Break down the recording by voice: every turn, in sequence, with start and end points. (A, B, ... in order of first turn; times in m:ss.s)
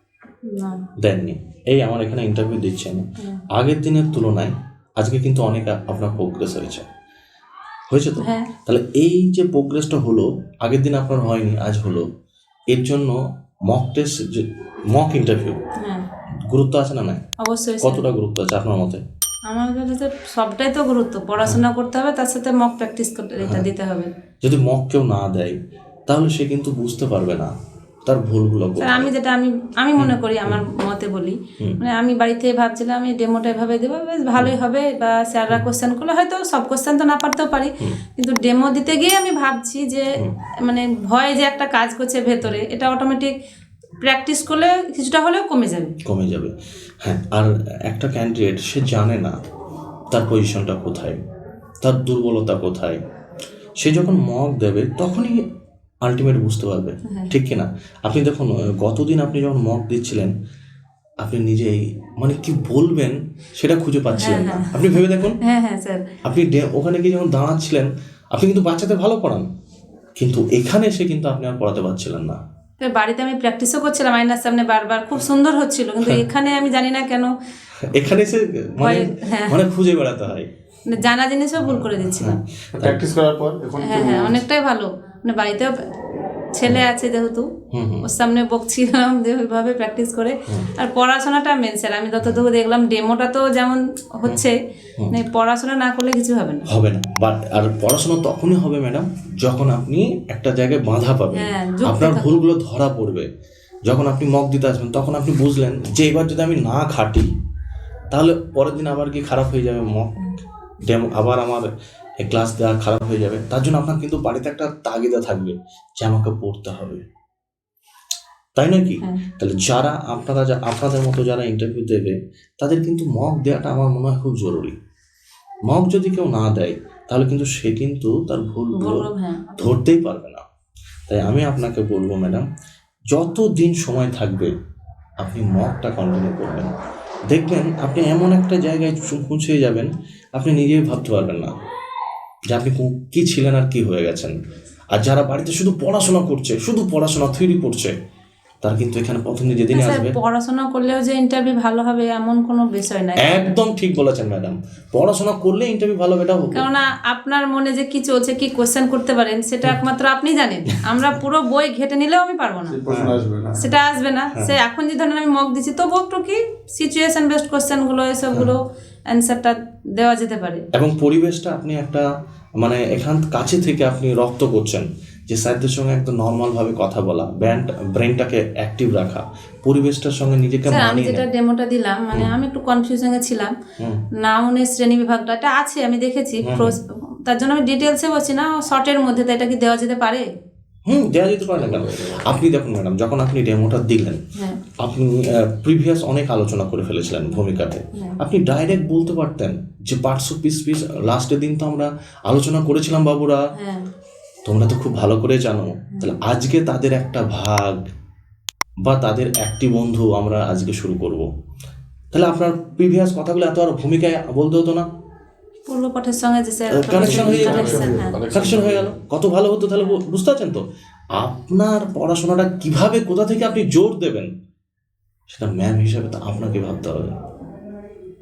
0:00.4-0:00.8 A
0:01.0-0:06.8 B
0:07.9-0:12.0 B
0:08.2-0:08.5 A
0:12.7-0:15.6 B
0:15.8-0:16.1 A
0:16.5-0:17.2 B
0:17.4-0:18.0 A
0:17.8-0:19.0 B
0:19.5-0:24.1 A
0:23.4-0:23.7 B
0:24.4-0:25.6 B
0:26.1-0:27.5 B
0:28.0-0:29.1 B
0:28.8-0:40.1 A
0:30.0-0:30.6 B
0:40.6-0:43.3 A
0:44.0-0:46.0 A
0:46.0-0:49.4 B
0:50.1-0:51.2 B
0:51.8-0:53.0 B
0:53.8-0:55.4 B
0:56.0-1:00.3 B
1:01.2-1:05.4 B
1:04.1-1:04.9 A
1:05.4-1:06.1 A
1:06.2-1:09.4 B
1:10.2-1:12.4 B
1:12.8-1:17.3 A
1:17.9-1:20.5 B
1:18.8-1:19.6 A
1:20.8-1:22.4 A
1:21.6-1:23.0 B
1:22.7-1:24.4 C
1:23.8-1:25.7 A
1:26.5-1:27.5 A
1:27.7-1:28.1 B
1:28.0-1:34.6 A
1:35.1-1:36.7 A
1:36.7-1:43.3 B
1:41.3-1:42.3 A
1:43.9-1:47.3 B
1:48.1-1:57.0 B
1:58.6-2:04.7 B
2:05.7-2:09.0 B
2:08.8-2:09.6 A
2:09.6-2:10.4 B
2:11.1-2:12.4 B
2:13.1-2:14.5 B
2:15.2-2:16.7 B
2:17.3-2:21.5 B
2:22.5-2:24.3 B
2:24.9-2:27.9 B
2:28.6-2:30.2 B
2:29.7-2:33.5 A
2:33.2-2:36.7 B
2:36.5-2:42.8 A
2:40.7-2:41.0 B
2:42.6-2:43.7 C
2:42.9-2:43.2 B
2:43.6-2:50.7 A
2:44.3-2:44.6 B
2:50.7-2:52.1 B
2:52.6-3:01.2 B
3:00.7-3:03.5 A
3:04.2-3:10.2 A
3:06.4-3:06.8 B
3:10.9-3:14.2 B
3:11.5-3:12.4 C
3:14.8-3:23.4 B
3:23.6-3:23.9 A
3:24.4-3:27.8 B
3:28.8-3:31.2 B
3:32.1-3:34.8 B
3:35.7-3:38.2 A
3:36.7-3:40.6 B
3:36.9-3:39.0 C
3:41.2-3:44.3 B
3:45.3-3:47.1 B